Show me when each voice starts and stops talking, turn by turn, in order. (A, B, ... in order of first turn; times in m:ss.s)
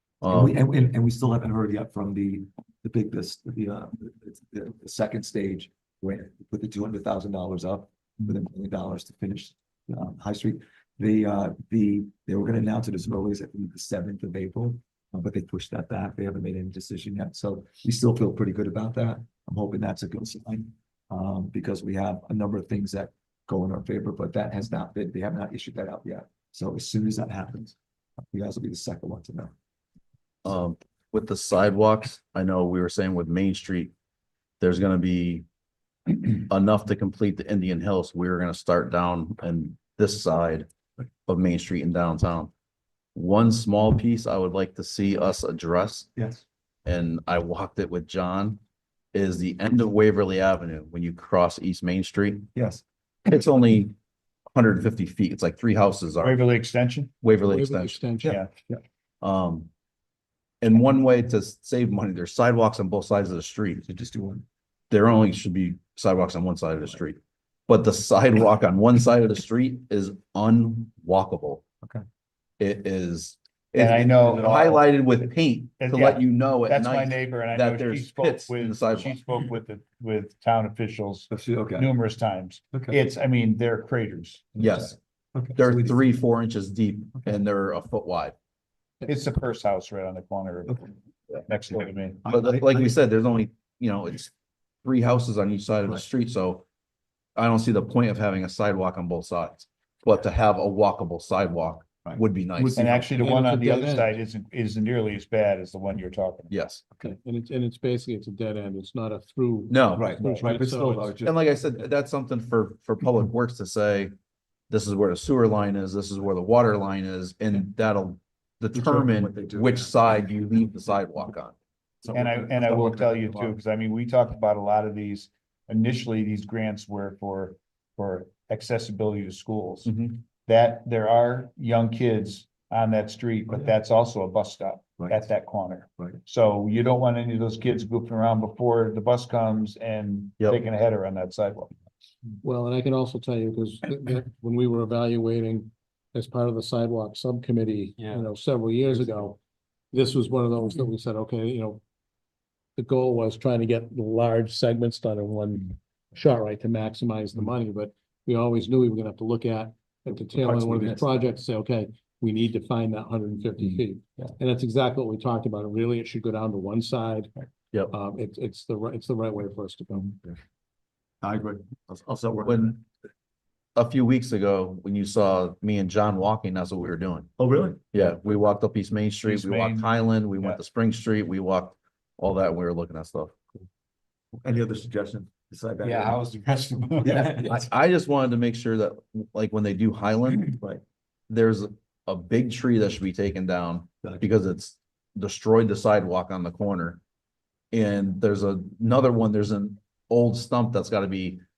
0:00.2-0:00.6 A
0:00.2-0:27.8 B
0:28.3-0:29.5 B
0:30.4-0:33.9 A
0:34.6-0:35.4 A
0:36.1-0:40.7 A
0:41.3-0:42.5 A
0:43.1-0:46.1 A
0:46.2-0:46.4 B
0:46.8-0:48.6 A
0:49.1-0:52.5 A
0:52.5-0:52.8 B
0:53.2-0:53.9 A
0:54.5-0:56.4 A
0:56.2-0:57.1 C
0:57.2-0:58.0 A
0:57.4-0:58.4 D
0:58.2-0:58.8 B
0:59.2-0:59.7 A
1:00.6-1:03.8 A
1:03.8-1:04.4 B
1:04.9-1:11.6 A
1:12.6-1:19.2 A
1:13.8-1:24.9 C
1:21.3-1:21.9 B
1:24.6-1:24.9 A
1:24.6-1:26.0 B
1:25.6-1:28.3 A
1:29.0-1:30.9 C
1:31.5-1:32.2 C
1:32.2-1:33.0 B
1:32.3-1:34.3 A
1:34.8-1:36.6 A
1:37.4-1:42.8 A
1:42.0-1:43.4 B
1:42.7-1:46.5 C
1:43.2-1:44.1 D
1:46.5-1:46.8 A
1:47.0-1:51.1 D
1:49.7-1:50.1 A
1:49.9-1:51.4 B
1:51.2-1:54.1 A
1:54.7-2:01.6 A
1:58.7-2:00.2 B
2:02.0-2:03.6 B
2:02.1-2:09.9 C
2:09.8-2:10.2 A
2:10.4-2:21.7 C
2:22.4-2:29.4 D
2:29.9-2:31.8 D
2:32.8-2:47.3 D
2:40.3-2:41.2 B
2:47.9-2:50.2 D
2:51.2-2:52.8 B
2:52.4-2:52.8 A
2:53.8-2:57.3 A
2:57.4-2:57.8 B
2:57.9-3:03.3 A
2:59.2-3:00.6 C
3:04.4-3:06.2 B
3:05.8-3:07.4 C
3:07.0-3:07.7 B
3:07.0-3:10.6 A
3:10.6-3:10.8 B
3:11.3-3:17.0 A
3:17.7-3:21.4 A